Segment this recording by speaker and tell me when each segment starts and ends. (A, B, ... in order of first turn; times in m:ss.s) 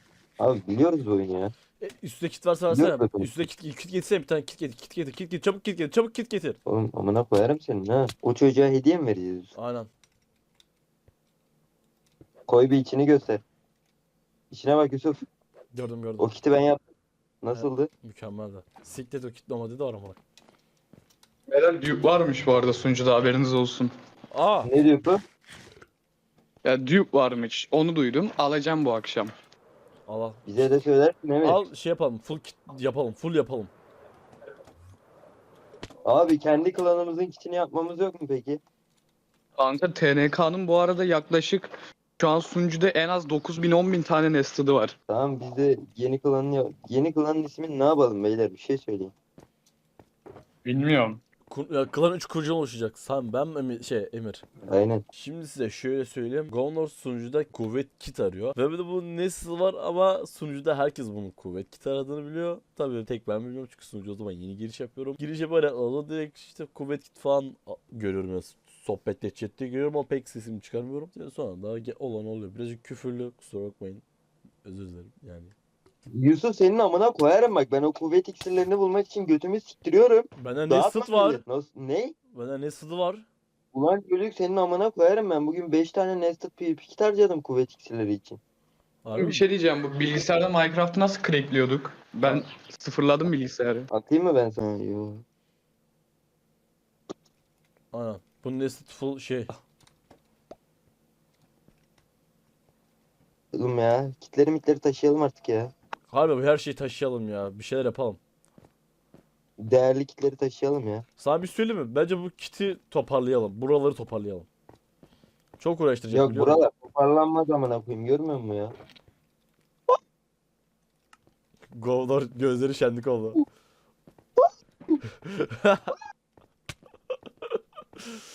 0:00.4-0:01.5 A
0:01.8-0:06.6 B
0:02.7-0:03.3 A
0:06.7-0:09.5 A
0:09.6-0:09.9 B
0:12.5-0:13.4 A
0:14.5-0:15.2 A
0:15.7-0:16.3 B
0:16.2-0:16.8 A
0:17.4-0:17.9 A
0:17.5-0:20.2 B
0:21.5-0:23.9 C
0:24.3-0:24.7 B
0:24.6-0:25.2 A
0:26.6-0:29.3 C
0:30.1-0:30.8 B
0:30.5-0:31.6 A
0:31.4-0:33.7 B
0:36.0-0:38.6 A
0:39.6-0:45.0 C
0:45.1-0:49.1 A
0:50.6-0:51.2 C
0:51.5-0:54.5 B
0:54.7-0:55.0 A
0:55.1-1:14.0 B
1:14.6-1:15.5 B
1:16.1-1:22.2 A
1:20.4-1:21.4 B
1:22.3-1:23.2 B
1:23.7-1:28.4 A
1:29.0-1:29.4 B
1:29.2-1:33.9 C
1:33.9-1:35.2 A
1:37.9-1:39.6 B
1:43.5-1:45.7 A
1:46.1-1:48.2 B
1:49.6-1:51.0 A
1:51.2-1:54.5 B
1:55.6-1:56.6 B
1:56.1-1:58.7 A
2:01.7-2:03.4 B
2:05.1-2:06.0 B
2:07.5-2:08.2 B